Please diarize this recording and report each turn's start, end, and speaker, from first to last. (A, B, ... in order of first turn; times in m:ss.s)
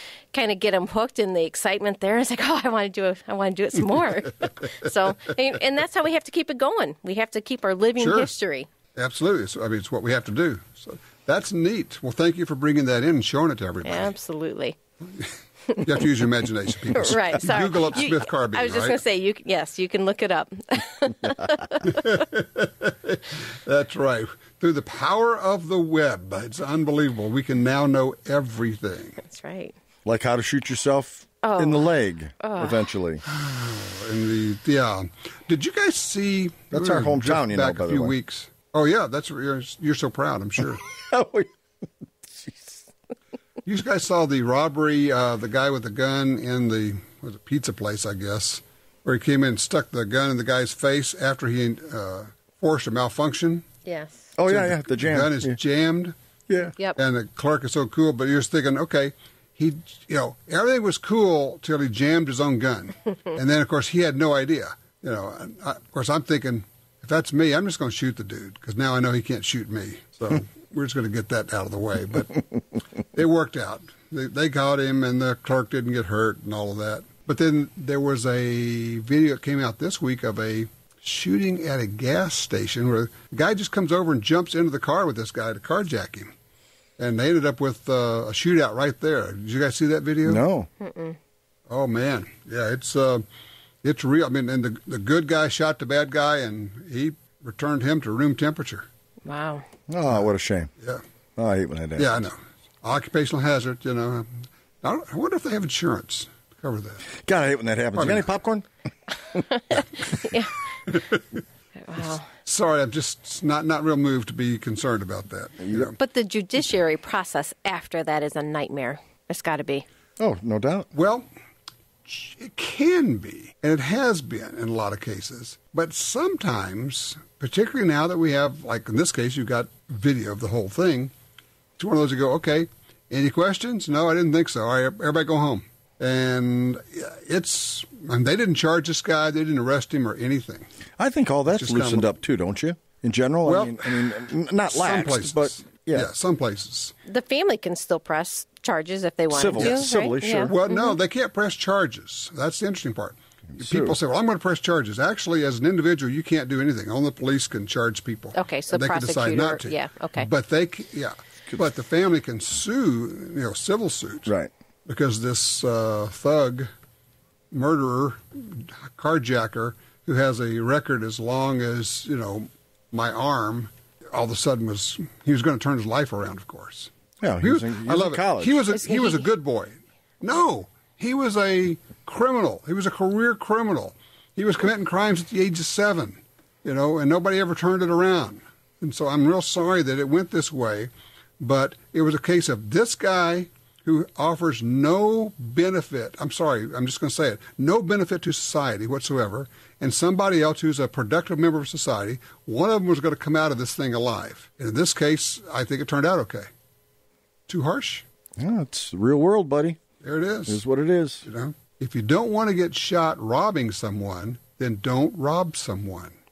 0:00.3-0:08.7 A
0:08.0-0:08.3 B
0:09.0-0:14.1 B
0:13.8-0:14.8 A
0:15.2-0:19.0 B
0:16.9-0:22.0 A
0:21.9-0:29.2 B
0:29.2-0:29.7 A
0:30.0-0:33.2 C
0:31.4-0:32.8 A
0:33.2-0:40.8 B
0:36.7-0:38.1 C
0:40.9-0:41.5 C
0:42.2-0:42.8 C
0:43.6-0:53.6 B
0:53.8-0:54.3 A
0:54.4-0:55.6 C
0:54.5-0:56.2 B
0:56.5-0:56.8 C
0:57.0-1:12.4 B
1:13.1-1:26.3 B
1:27.0-1:30.4 B
1:30.2-1:30.7 C
1:30.8-1:31.2 A
1:31.7-1:33.2 B
1:33.8-1:38.8 B
1:39.2-1:39.6 A
1:39.9-1:40.7 C
1:41.4-1:42.2 C
1:42.0-1:47.0 B
1:47.1-1:48.6 C
1:48.0-1:48.2 B
1:49.3-1:50.5 A
1:50.9-1:51.2 B
1:51.8-1:52.2 A
1:52.4-1:56.0 B
1:55.9-1:59.8 A
2:00.2-2:00.9 C
2:00.9-2:01.2 B
2:02.1-2:11.1 B
2:11.8-2:20.6 B
2:21.0-2:26.1 C
2:21.5-2:22.1 B
2:23.4-2:24.2 B
2:24.7-2:26.9 B
2:27.0-2:31.0 A
2:29.3-2:30.5 C
2:30.5-2:44.3 B
2:33.5-2:34.0 C
2:38.3-2:40.3 A
2:44.9-2:46.7 B
2:47.5-2:56.9 B
2:57.2-2:58.6 C
2:57.4-3:26.5 B
2:58.7-2:59.3 A
3:27.5-3:28.0 B
3:28.4-3:29.8 C
3:30.0-3:30.6 B
3:30.5-3:31.2 C
3:31.2-3:36.2 B